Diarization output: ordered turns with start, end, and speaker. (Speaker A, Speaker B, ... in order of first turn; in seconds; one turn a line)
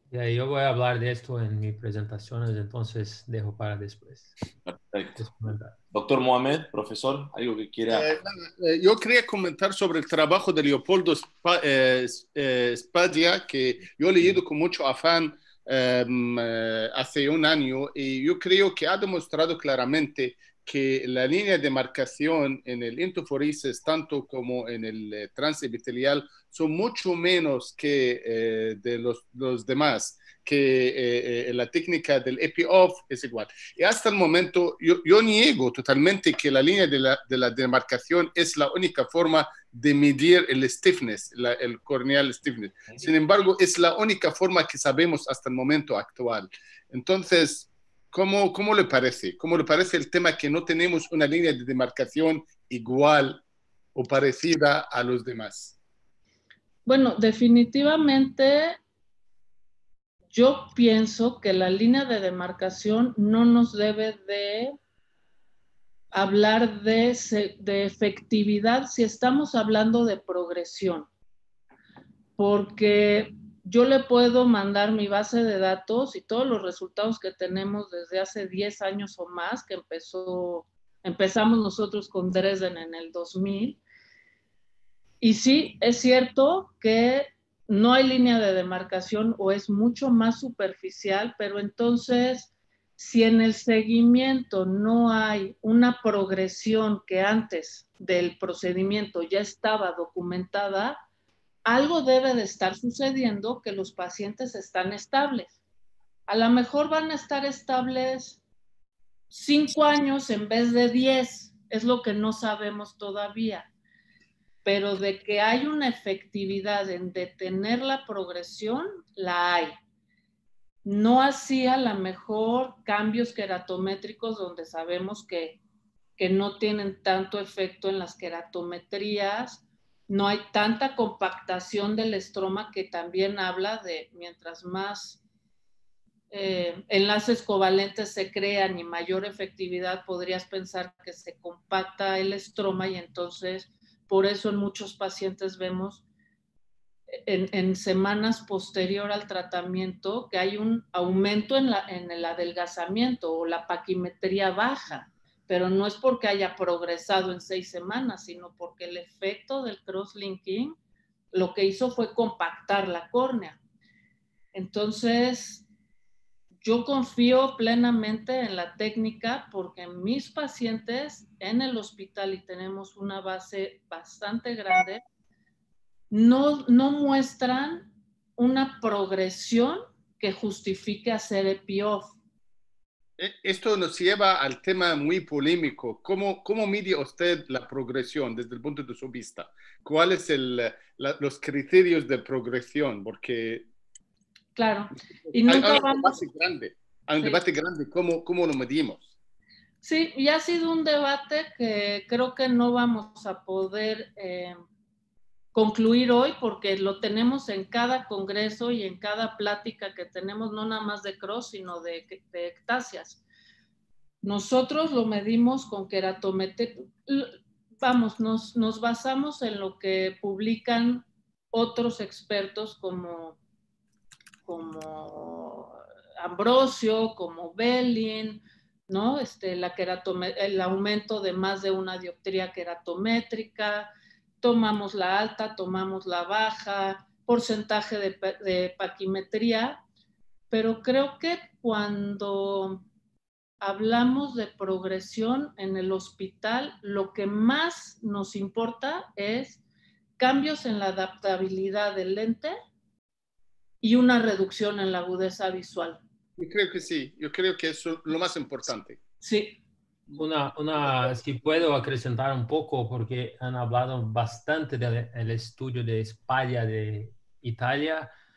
Speaker A: 0.1-4.3
Speaker B: 4.7-5.2
Speaker A: 5.2-5.8
Speaker B: 5.9-8.1
Speaker C: 7.9-53.4
Speaker C: 54.0-55.8
Speaker D: 56.9-58.8
Speaker D: 60.3-64.8
Speaker D: 66.1-71.1
Speaker D: 72.4-83.8
Speaker D: 85.2-101.0
Speaker D: 101.7-105.5
Speaker D: 106.3-108.4
Speaker D: 109.3-113.7
Speaker D: 114.7-119.8
Speaker D: 120.8-125.6
Speaker D: 126.2-135.2
Speaker D: 136.3-146.0
Speaker D: 147.2-160.8
Speaker D: 161.3-163.6
Speaker D: 164.5-165.6
Speaker D: 166.6-175.0
Speaker D: 176.1-182.2
Speaker C: 183.2-193.7
Speaker D: 194.6-196.2
Speaker C: 195.4-199.1
Speaker D: 199.8-204.6
Speaker D: 205.5-213.2
Speaker D: 214.2-223.4
Speaker D: 224.5-233.9
Speaker D: 234.4-239.8
Speaker D: 240.5-242.8
Speaker D: 243.6-249.6
Speaker D: 250.2-252.5
Speaker D: 253.8-256.0
Speaker C: 256.4-259.0
Speaker D: 259.2-259.6
Speaker A: 260.1-268.1